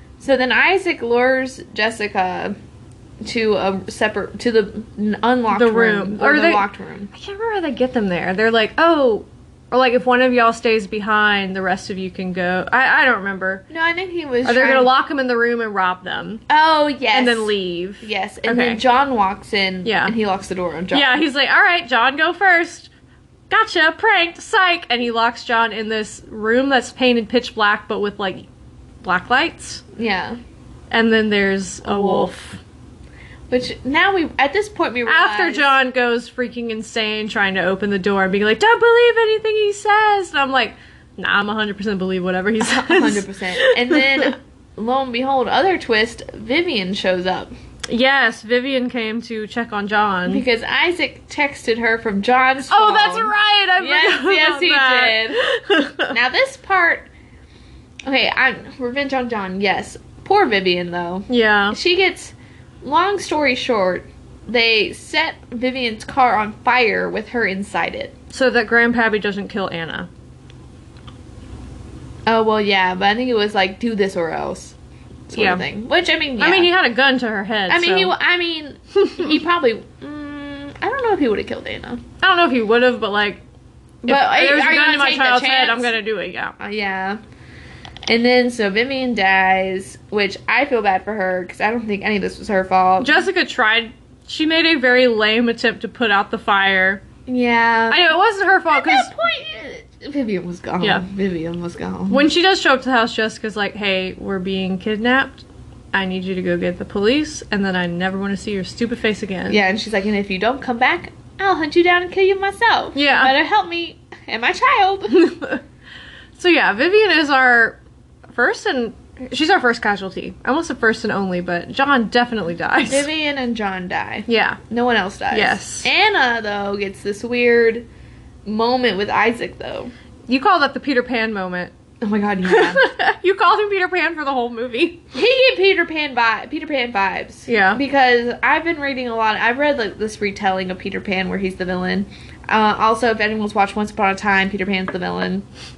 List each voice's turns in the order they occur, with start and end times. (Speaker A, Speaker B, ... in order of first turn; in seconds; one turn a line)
Speaker A: 0.2-2.5
Speaker A: 3.2-7.1
Speaker B: 5.5-13.6
Speaker A: 13.7-14.9
Speaker B: 14.4-16.4
Speaker A: 16.5-21.2
Speaker B: 17.1-18.8
Speaker B: 19.8-20.1
Speaker B: 20.9-22.9
Speaker B: 23.5-28.5
Speaker B: 29.0-29.8
Speaker A: 29.9-30.4
Speaker B: 30.9-32.6
Speaker A: 31.8-32.3
Speaker A: 33.5-35.7
Speaker B: 35.0-44.3
Speaker A: 42.6-47.5
Speaker B: 47.9-50.4
Speaker A: 50.3-55.4
Speaker B: 52.7-56.1
Speaker A: 56.1-57.1
Speaker A: 58.0-68.1
Speaker B: 61.3-61.8
Speaker B: 68.3-70.1
Speaker A: 72.2-74.8
Speaker A: 75.3-76.7
Speaker B: 75.3-75.6
Speaker B: 76.4-78.1
Speaker A: 77.7-82.0
Speaker B: 79.0-79.3
Speaker B: 82.2-83.4
Speaker A: 84.0-85.9
Speaker B: 84.0-86.5
Speaker A: 86.6-87.2
Speaker A: 88.1-93.2
Speaker B: 93.0-97.0
Speaker A: 97.3-98.1
Speaker B: 97.9-99.1
Speaker A: 98.7-102.2
Speaker B: 102.1-109.6
Speaker A: 109.5-115.2
Speaker B: 112.9-113.3
Speaker B: 115.1-115.6
Speaker B: 116.4-117.8
Speaker B: 118.3-123.1
Speaker A: 122.9-127.8
Speaker B: 124.3-124.6
Speaker B: 125.3-125.9
Speaker A: 128.4-129.9
Speaker B: 130.3-131.7
Speaker A: 132.0-132.9
Speaker B: 132.4-135.0
Speaker A: 135.1-145.4
Speaker B: 137.5-137.8